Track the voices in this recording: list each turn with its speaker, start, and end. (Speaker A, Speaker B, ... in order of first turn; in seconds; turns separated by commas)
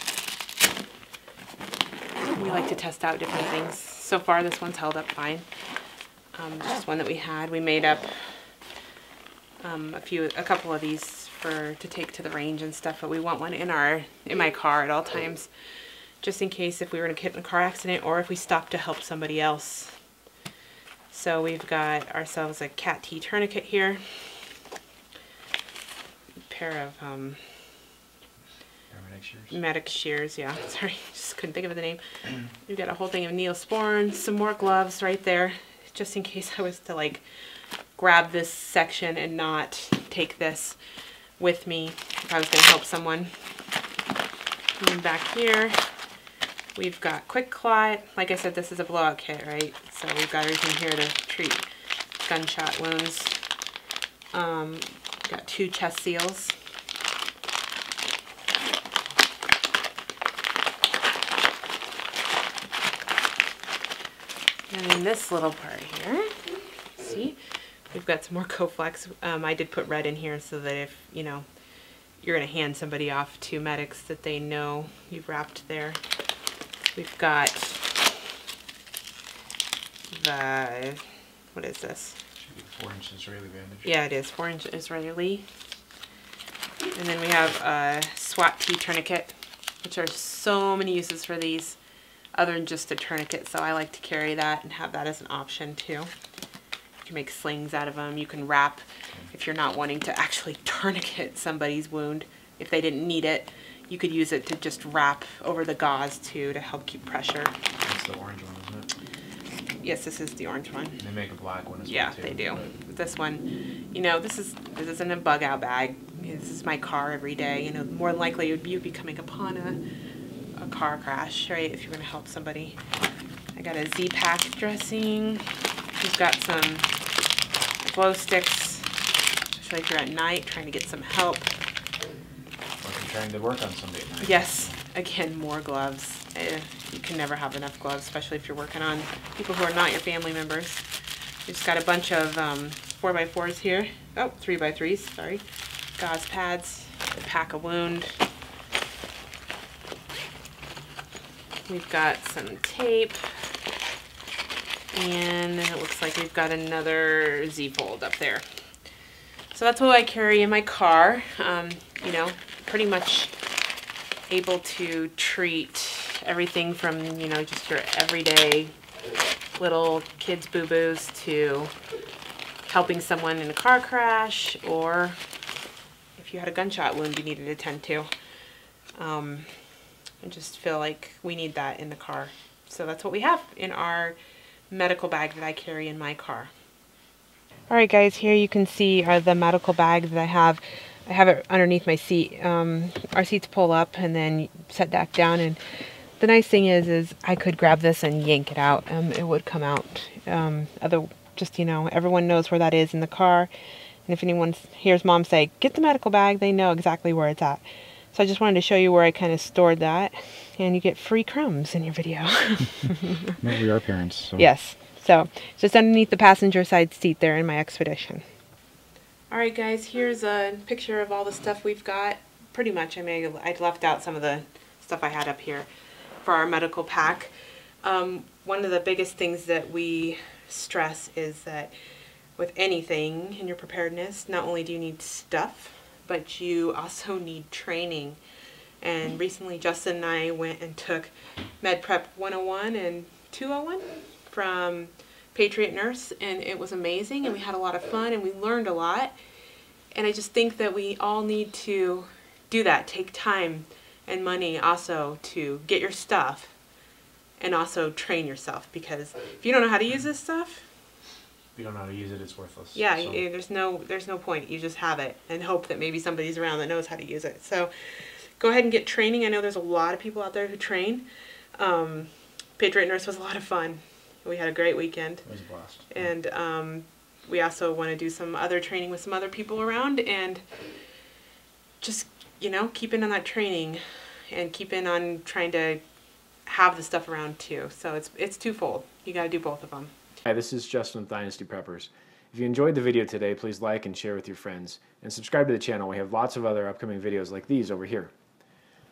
Speaker A: 2.3-5.5, Speaker A: 6.3-8.6, Speaker A: 9.6-15.5, Speaker A: 16.2-20.0, Speaker A: 21.1-24.4, Speaker A: 26.5-27.4, Speaker B: 28.9-29.5, Speaker A: 29.5-37.2, Speaker A: 38.0-40.8, Speaker A: 41.4-43.4, Speaker A: 44.8-45.8, Speaker A: 46.7-51.6, Speaker A: 52.2-53.4, Speaker A: 54.3-56.5, Speaker A: 64.7-71.5, Speaker A: 72.2-76.0, Speaker A: 76.9-78.0, Speaker A: 80.1-82.2, Speaker B: 82.4-83.9, Speaker A: 83.8-85.4, Speaker A: 86.9-91.8, Speaker A: 92.3-96.1, Speaker A: 97.0-107.5, Speaker B: 107.8-108.9, Speaker A: 109.8-111.0, Speaker B: 111.0-112.7, Speaker A: 111.8-119.8, Speaker A: 120.5-122.8, Speaker A: 123.5-125.5, Speaker A: 126.0-126.9, Speaker A: 127.8-128.9, Speaker A: 129.5-131.5, Speaker B: 132.8-134.7, Speaker A: 134.2-140.8, Speaker A: 141.4-145.4, Speaker A: 146.0-148.2, Speaker A: 151.7-153.2, Speaker A: 154.9-158.4, Speaker A: 159.5-163.3, Speaker A: 164.3-168.7, Speaker A: 169.5-171.7, Speaker A: 172.7-175.2, Speaker A: 176.2-178.1, Speaker A: 178.9-184.2, Speaker A: 184.7-186.5, Speaker A: 187.7-195.6, Speaker A: 196.2-203.5, Speaker A: 204.1-213.3, Speaker B: 213.4-214.5, Speaker A: 214.4-218.2, Speaker A: 219.3-225.7, Speaker A: 226.2-231.7, Speaker A: 232.4-238.2, Speaker A: 238.8-249.2, Speaker A: 249.9-256.5, Speaker A: 257.4-260.6, Speaker B: 261.5-263.2, Speaker A: 262.7-280.9, Speaker B: 275.2-276.0, Speaker A: 281.8-285.8, Speaker A: 286.4-289.9, Speaker C: 290.2-298.1